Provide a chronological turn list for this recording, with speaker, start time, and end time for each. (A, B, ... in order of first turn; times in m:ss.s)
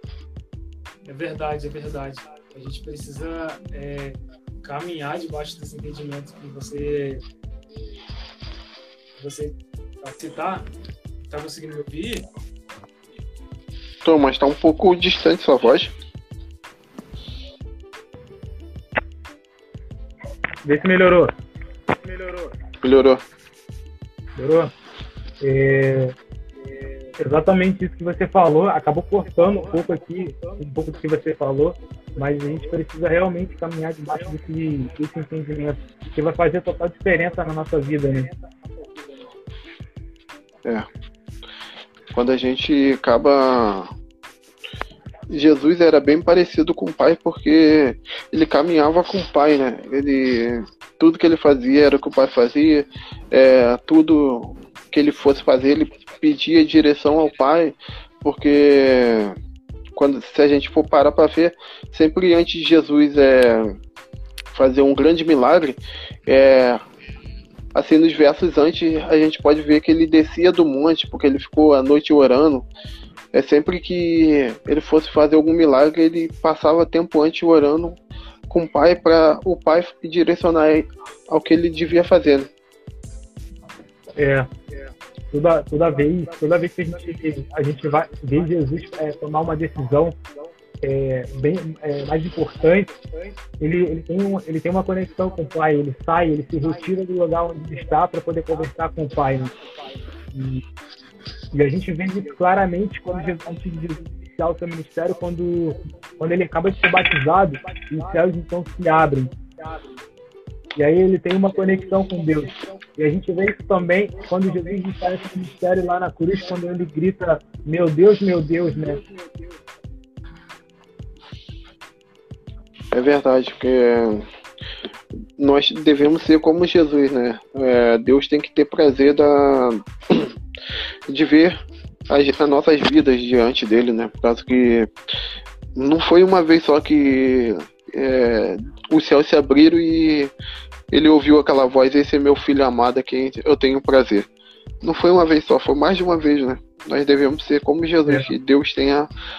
0:01.0-0:07.2 A
0:09.2-0:10.7 A
0:11.3-0:12.3 A
0:14.0-0:15.9 B
0:20.6-0:21.3 C
0:22.8-0:23.2 B
0:24.4-0:24.7 C
0:25.4-0:26.2 C
0:27.2-0:38.3 C
0:42.1-0:43.9 B
0:45.3-0:59.4 B
1:00.0-1:03.8 B
1:04.5-1:06.8 B
1:07.7-1:12.7 B
1:13.3-1:22.5 B
1:24.2-1:24.5 C
1:25.3-1:30.2 C
1:30.8-1:32.9 C
1:33.6-1:39.5 C
1:40.3-1:40.6 C
1:41.5-1:49.3 C
1:50.8-1:59.0 C
2:02.9-2:04.3 B
2:05.4-2:10.4 B
2:11.1-2:11.6 B
2:12.1-2:14.9 B
2:15.8-2:20.3 B
2:20.9-2:24.3 B
2:24.8-2:29.1 B